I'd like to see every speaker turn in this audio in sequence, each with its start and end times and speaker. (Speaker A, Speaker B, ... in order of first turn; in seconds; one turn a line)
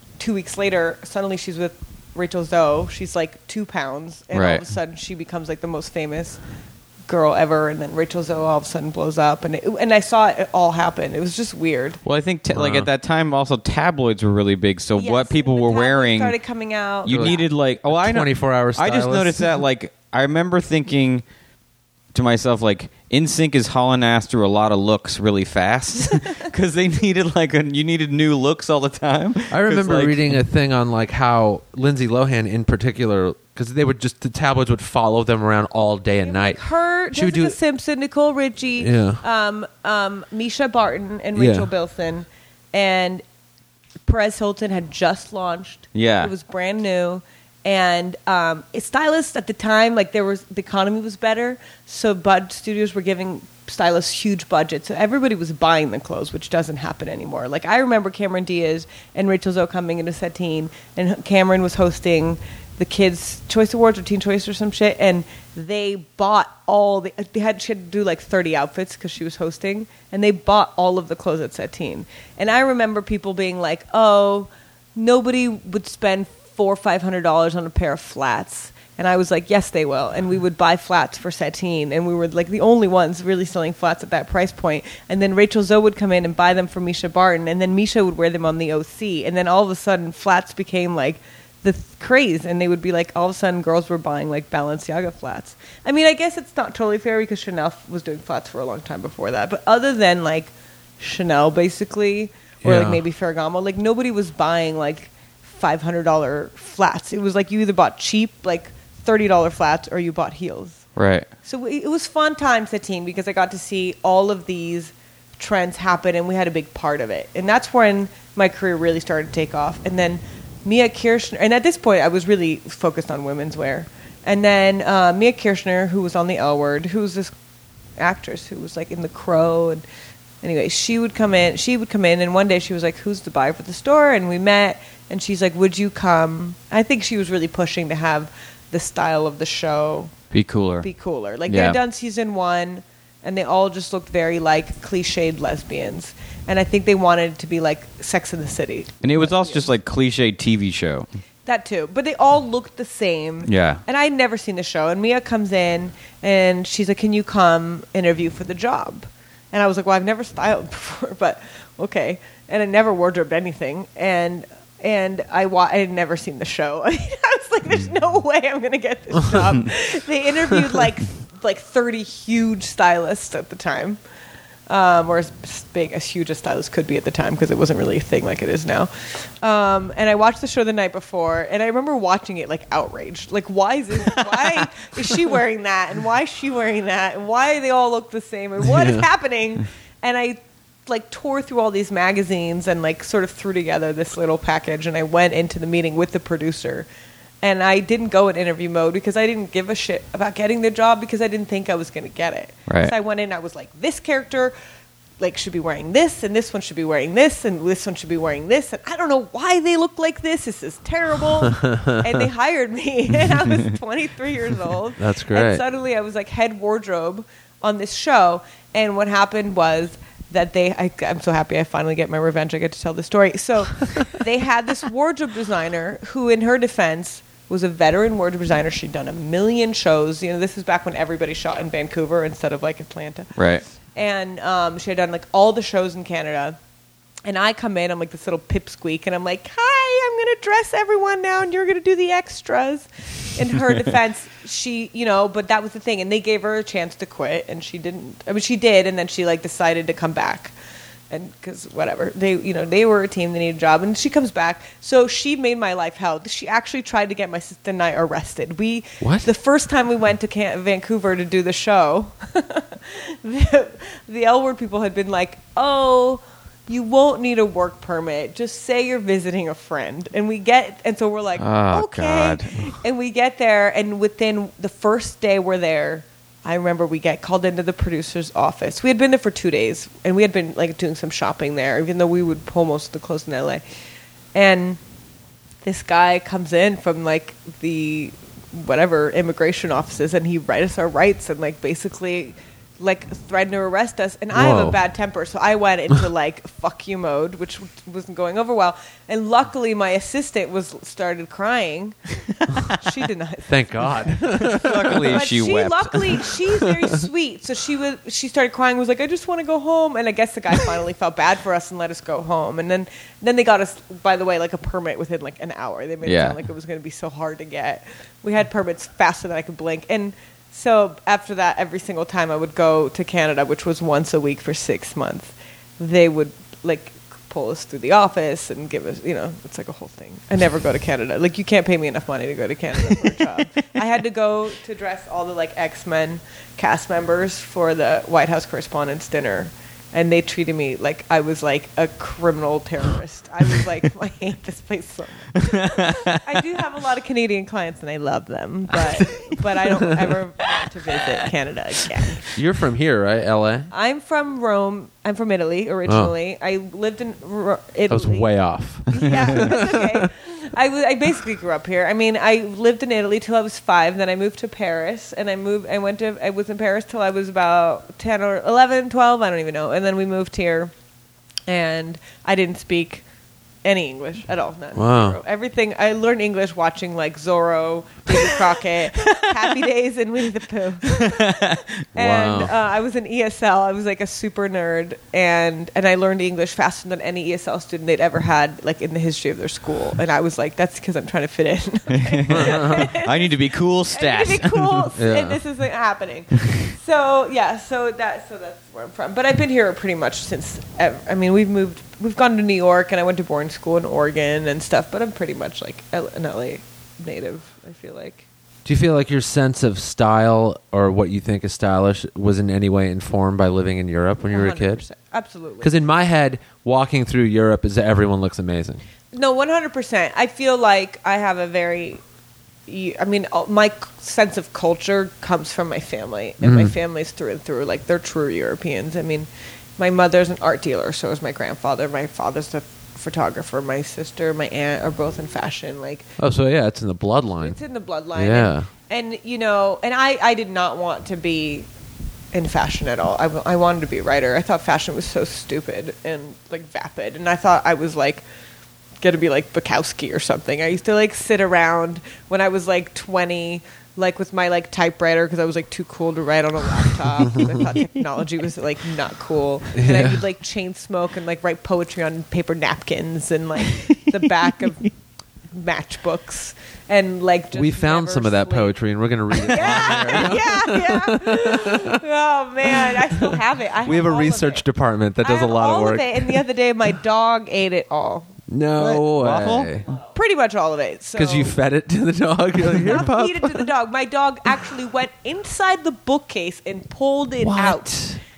Speaker A: 0.2-6.4
Speaker B: 4.3-4.6
Speaker A: 7.1-12.0
Speaker B: 12.0-16.3
Speaker C: 12.5-12.9
Speaker A: 15.0-17.4
Speaker B: 17.0-21.2
Speaker C: 17.1-19.6
Speaker B: 22.1-30.2
Speaker C: 29.5-36.6
Speaker A: 36.2-43.2
Speaker C: 37.1-37.5
Speaker C: 38.8-39.2
Speaker C: 41.3-41.7
Speaker A: 44.0-110.8
Speaker B: 45.9-46.3
Speaker C: 102.6-103.0
Speaker B: 111.0-111.3
Speaker A: 111.4-127.3
Speaker A: 128.0-129.8
Speaker A: 130.4-140.1
Speaker B: 140.3-140.9
Speaker A: 140.8-149.7
Speaker B: 141.5-141.8
Speaker B: 149.0-151.1
Speaker A: 151.4-174.0
Speaker B: 153.4-153.8
Speaker A: 174.7-196.9
Speaker C: 188.6-189.1
Speaker A: 197.4-204.5
Speaker B: 202.7-202.9
Speaker A: 205.2-236.6
Speaker C: 211.6-211.9
Speaker C: 215.0-215.6
Speaker B: 233.3-233.6
Speaker A: 237.2-250.5
Speaker A: 251.1-283.6
Speaker C: 259.0-259.3
Speaker B: 271.4-272.7
Speaker A: 284.3-284.8
Speaker A: 285.6-302.0
Speaker C: 294.3-294.8
Speaker A: 302.6-352.3
Speaker C: 303.5-305.2
Speaker B: 304.4-306.3
Speaker B: 316.0-316.4
Speaker B: 345.4-346.2
Speaker C: 352.3-353.7
Speaker A: 353.7-358.3
Speaker C: 355.9-356.1
Speaker C: 357.9-360.1
Speaker A: 358.8-370.7
Speaker A: 371.5-373.0
Speaker A: 373.6-393.4
Speaker C: 374.7-375.2
Speaker B: 380.9-381.7
Speaker C: 381.9-382.5
Speaker B: 391.9-394.9
Speaker C: 392.3-392.9
Speaker A: 393.9-408.2
Speaker C: 395.0-395.4
Speaker C: 408.6-414.8
Speaker A: 414.3-415.7
Speaker C: 415.6-418.8
Speaker A: 419.1-422.0
Speaker A: 422.7-436.1
Speaker C: 426.4-426.7
Speaker C: 436.2-437.6
Speaker A: 437.4-441.7
Speaker C: 438.1-438.7
Speaker A: 442.3-448.2
Speaker A: 449.0-464.9
Speaker C: 457.3-457.6
Speaker C: 459.7-460.2
Speaker A: 465.5-468.8
Speaker C: 467.5-472.0
Speaker A: 469.3-474.6
Speaker B: 469.7-470.3
Speaker C: 472.7-476.4
Speaker A: 475.2-478.3
Speaker C: 478.5-479.9
Speaker B: 478.8-479.7
Speaker A: 480.1-481.6
Speaker C: 481.1-483.7
Speaker A: 482.6-488.0
Speaker C: 487.4-488.2